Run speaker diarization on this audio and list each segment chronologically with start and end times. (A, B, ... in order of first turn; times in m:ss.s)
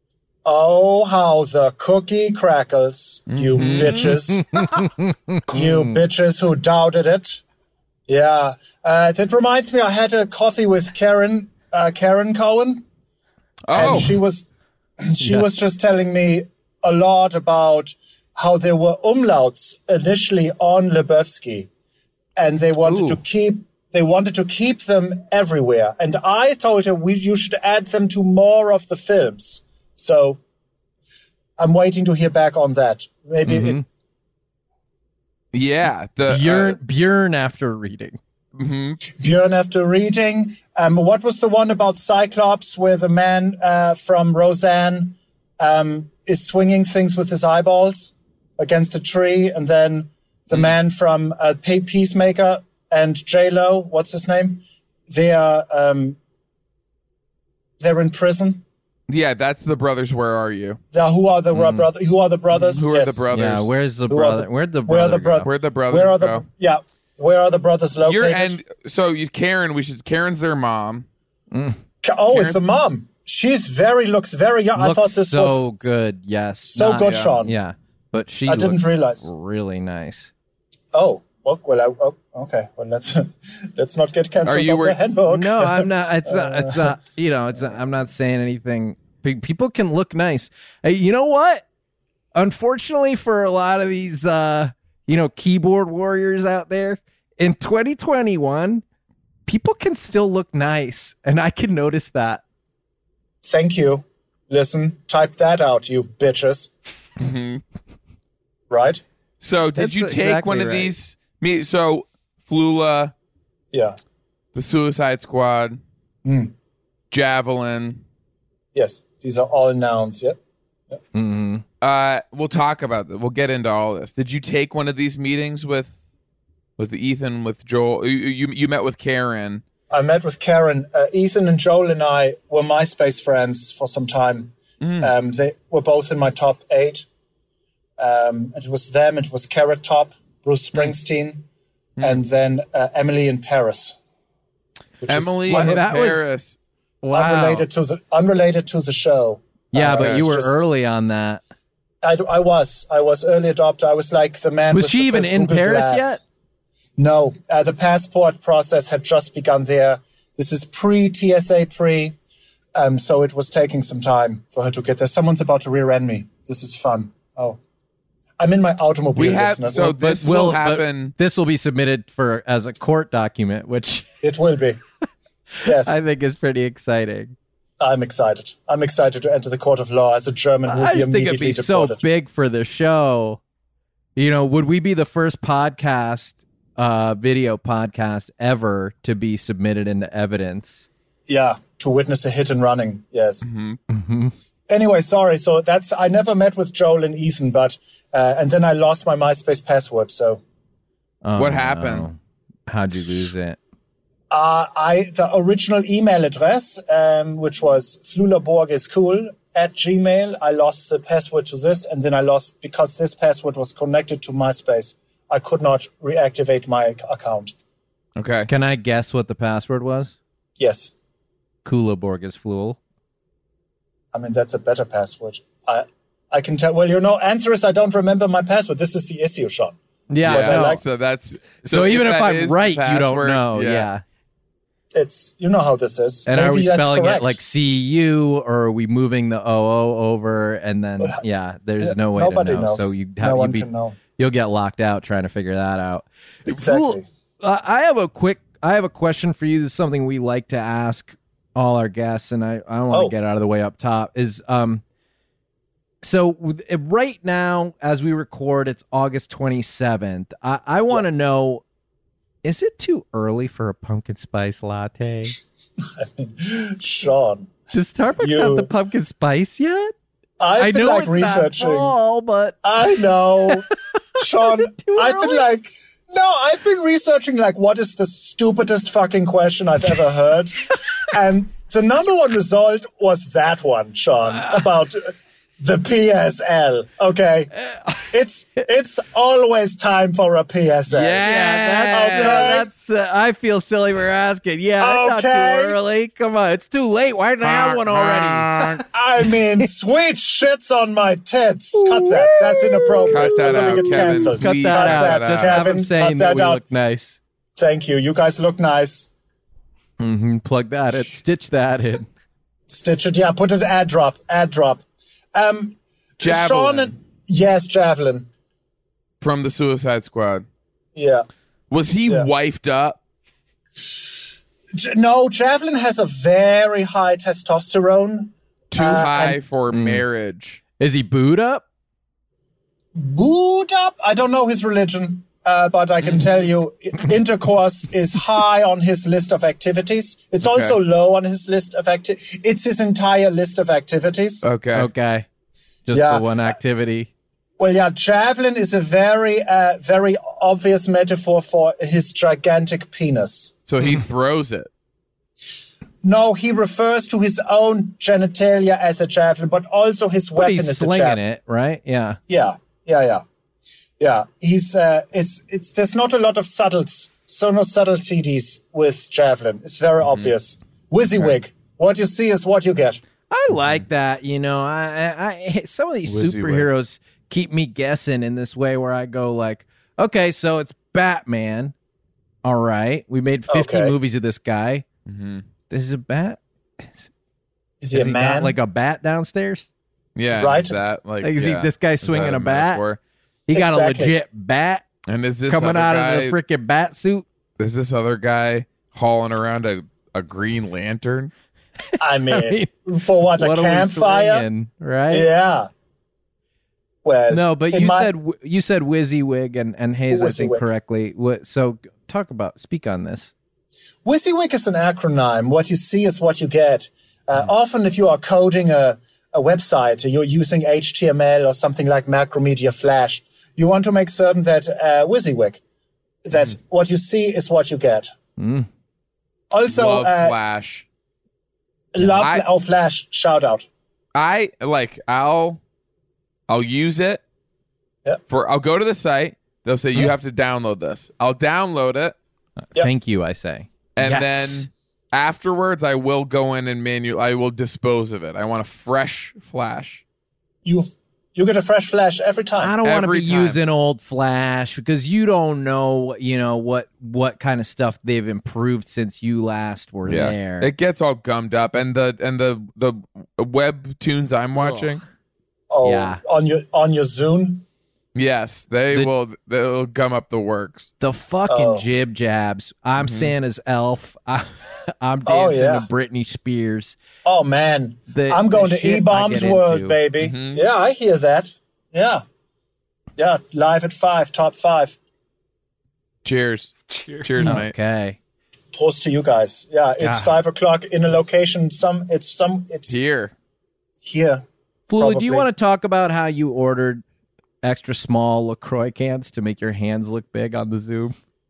0:00.4-0:04.7 A
0:03.3-0:04.8 B
0:03.7-0:06.0 C
0:05.5-0:07.4 A
0:08.1-0:12.8 A
0:13.7-0:14.2 B
0:13.7-0:14.5 A
0:15.0-0:21.7 A
0:15.2-0:15.5 C
0:22.4-0:30.4 A
0:22.8-0:23.2 B
0:31.6-0:33.8 A
0:33.4-0:33.8 C
0:35.5-0:36.8 B
0:36.3-0:38.2 C
0:38.6-0:39.0 B
0:39.0-0:56.2 A
0:57.8-0:58.6 A
0:59.1-1:00.8 B
1:00.9-1:03.2 A
1:01.5-1:01.9 C
1:02.5-1:03.7 B
1:03.3-1:05.5 C
1:04.1-1:08.6 A
1:05.4-1:06.4 B
1:08.0-1:11.1 B
1:11.5-1:11.8 C
1:12.0-1:15.9 A
1:12.3-1:12.6 B
1:14.8-1:20.3 C
1:16.7-1:17.6 A
1:18.5-1:19.3 A
1:20.9-1:26.9 A
1:24.4-1:25.0 B
1:25.3-1:31.7 C
1:32.4-1:38.8 C
1:39.5-1:42.4 C
1:43.4-1:46.7 A
1:47.2-1:47.6 B
1:48.7-1:49.0 A
1:49.4-1:53.1 B
1:49.8-1:50.9 C
1:53.7-1:54.0 A
1:54.6-1:55.8 B
1:56.2-1:56.5 A
1:57.1-1:58.0 B
1:58.7-2:00.4 A
2:01.1-2:01.6 C
2:01.8-2:05.9 B
2:06.8-2:09.6 B
2:09.9-2:17.1 A
2:14.8-2:15.1 B
2:18.0-2:21.5 A
2:22.0-2:24.0 A
2:25.0-2:25.8 A
2:25.1-2:26.6 B
2:25.5-2:26.3 C
2:27.0-2:27.6 C
2:27.1-2:30.6 A
2:29.7-2:31.4 C
2:32.0-2:36.2 A
2:34.7-2:36.2 C
2:37.0-2:42.2 A
2:42.8-2:47.6 A
2:48.4-2:49.9 A
2:49.2-2:51.1 B
2:49.7-2:54.1 C
2:54.2-2:54.8 A
2:55.6-2:57.4 C
2:55.6-2:56.0 A
2:57.8-3:02.0 A
3:00.7-3:03.4 C
3:04.2-3:10.9 C
3:11.3-3:13.4 A
3:13.4-3:13.8 B
3:13.9-3:14.3 C
3:14.7-3:20.4 A
3:21.2-3:23.6 C
3:21.4-3:22.1 B
3:24.3-3:37.5 A
3:38.2-3:38.5 B
3:38.5-3:40.2 C
3:40.6-3:40.9 A
3:41.6-3:42.8 C
3:44.1-3:50.8 A
3:50.1-3:50.8 C
3:50.2-3:53.9 B
3:51.6-3:54.0 C
3:54.9-3:57.4 A
3:56.3-4:14.8 C
4:01.8-4:04.0 A
4:06.5-4:07.0 A
4:16.0-4:21.6 C
4:22.4-4:25.4 C
4:25.9-4:27.5 A
4:27.7-4:30.0 C
4:28.2-4:28.7 A
4:30.4-4:32.0 A
4:30.6-4:32.7 C
4:32.6-4:51.2 A
4:34.2-4:35.4 C
4:50.9-4:52.7 B
4:51.1-4:58.9 C
4:51.9-4:52.7 A
4:54.8-4:55.8 A
4:57.4-4:58.9 B
4:58.9-5:06.6 A
5:01.8-5:07.2 C
5:03.0-5:05.6 B
5:07.6-5:09.1 A
5:10.0-5:12.1 C
5:12.7-5:18.3 A
5:16.2-5:17.0 B
5:19.2-5:20.4 B
5:21.0-5:21.3 A
5:21.7-5:23.0 B
5:24.7-5:29.4 A
5:28.7-5:30.6 B
5:29.7-5:30.0 C
5:30.8-5:31.6 C
5:33.0-5:44.4 A
5:40.4-5:40.8 B
5:44.4-5:44.9 B
5:44.7-5:45.3 C
5:45.9-5:47.1 C
5:45.9-5:46.5 A
5:47.6-5:53.5 A
5:53.7-5:54.7 B
5:56.0-6:01.2 A
6:00.4-6:02.2 C
6:02.3-6:03.2 A
6:04.0-6:13.0 A
6:13.3-6:21.7 C
6:16.1-6:16.7 B
6:22.4-6:24.8 C
6:23.5-6:24.0 A
6:25.1-6:25.4 B
6:25.7-6:26.9 C
6:27.8-6:28.6 A
6:27.9-6:29.7 C
6:30.2-6:33.0 B
6:30.3-6:30.8 A
6:31.2-6:32.8 C
6:33.5-6:34.8 C
6:33.5-6:34.2 A
6:35.1-6:36.4 B
6:35.5-6:37.2 C
6:37.6-6:41.3 B
6:41.9-6:42.7 C
6:42.0-6:44.5 A
6:43.4-6:45.3 C
6:45.1-6:45.7 A
6:47.0-6:48.1 A
6:47.3-6:53.3 C
6:50.1-6:50.7 A
6:54.0-7:05.6 A
7:06.2-7:08.1 A
7:08.4-7:08.7 C
7:09.5-7:10.4 A
7:09.7-7:10.9 B
7:11.9-7:13.7 A
7:12.2-7:12.4 B
7:14.2-7:15.6 B
7:16.5-7:17.2 B
7:18.3-7:22.2 B
7:22.6-7:24.7 C
7:24.0-7:30.0 B
7:30.6-7:32.8 A
7:32.6-7:40.7 C
7:32.8-7:33.6 B
7:40.1-7:45.0 B
7:45.7-7:47.6 A
7:45.8-7:46.2 C
7:48.2-7:50.9 B
7:51.0-7:57.0 C
7:51.5-7:51.8 A
7:53.0-7:53.3 B
7:55.3-7:55.9 A
7:57.2-8:02.2 A
7:58.1-8:00.0 C
8:00.2-8:00.6 B
8:03.2-8:05.0 A
8:06.2-8:07.7 B
8:07.4-8:08.2 C
8:08.7-8:13.0 A
8:10.0-8:10.4 C
8:12.9-8:13.3 B
8:14.0-8:14.4 A
8:14.9-8:17.0 C
8:15.0-8:15.5 A
8:17.6-8:21.2 C